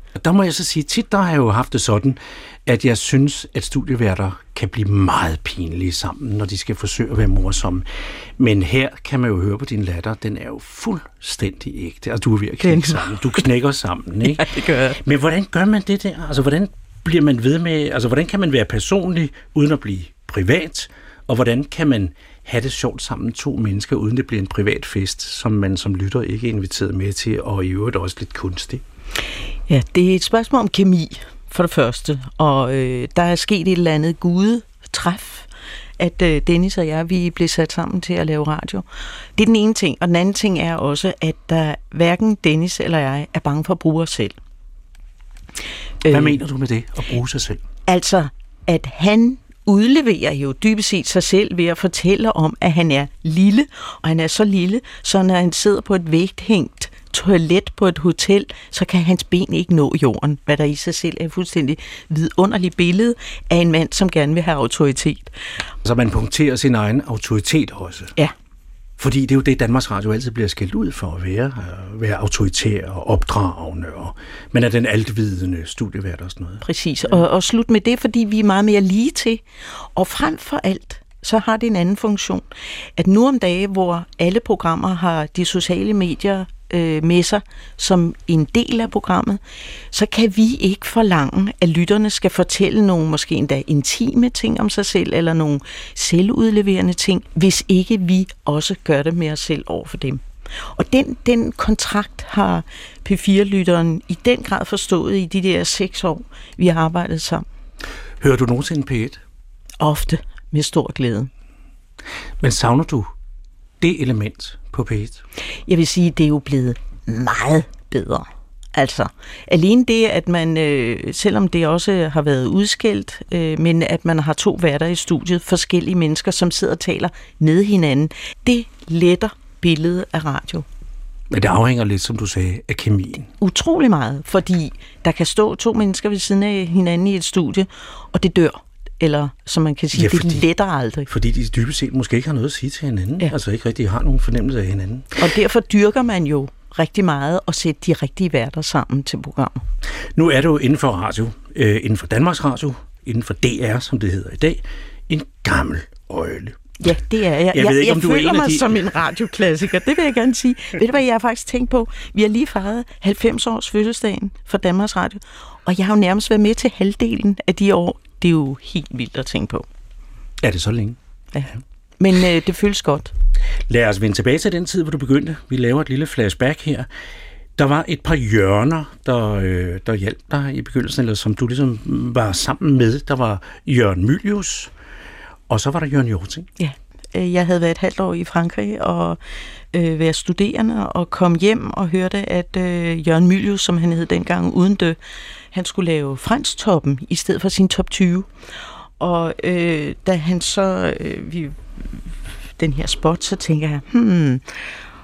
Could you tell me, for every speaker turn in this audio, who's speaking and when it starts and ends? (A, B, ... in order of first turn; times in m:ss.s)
0:00.2-0:07.9 A
0:08.4-0:28.8 A
0:12.6-0:13.5 B
0:14.2-0:15.0 B
0:29.7-0:35.5 B
0:36.0-0:38.8 B
0:39.4-0:44.4 B
0:46.0-0:46.4 B
0:46.1-0:47.6 A
0:47.9-1:05.3 B
1:05.8-1:08.1 A
1:09.0-1:16.6 A
1:16.6-1:19.4 B
1:19.9-1:22.5 B
1:23.0-1:47.5 B
1:48.2-1:49.2 A
1:49.8-1:51.3 B
1:52.4-1:53.1 A
1:53.8-1:55.2 A
1:55.7-2:10.7 B
2:11.3-2:13.3 A
2:13.4-2:21.1 B
2:19.9-2:20.5 A
2:21.1-2:25.2 A
2:25.2-2:29.6 B
2:30.2-2:36.9 A
2:36.8-2:49.7 B
2:37.5-2:38.8 A
2:50.4-2:51.0 A
2:52.0-2:53.1 B
2:53.7-2:56.9 A
2:57.6-3:04.7 A
3:05.5-3:06.5 A
3:06.6-3:09.2 B
3:09.7-3:15.0 B
3:15.5-3:18.3 B
3:19.0-3:24.8 B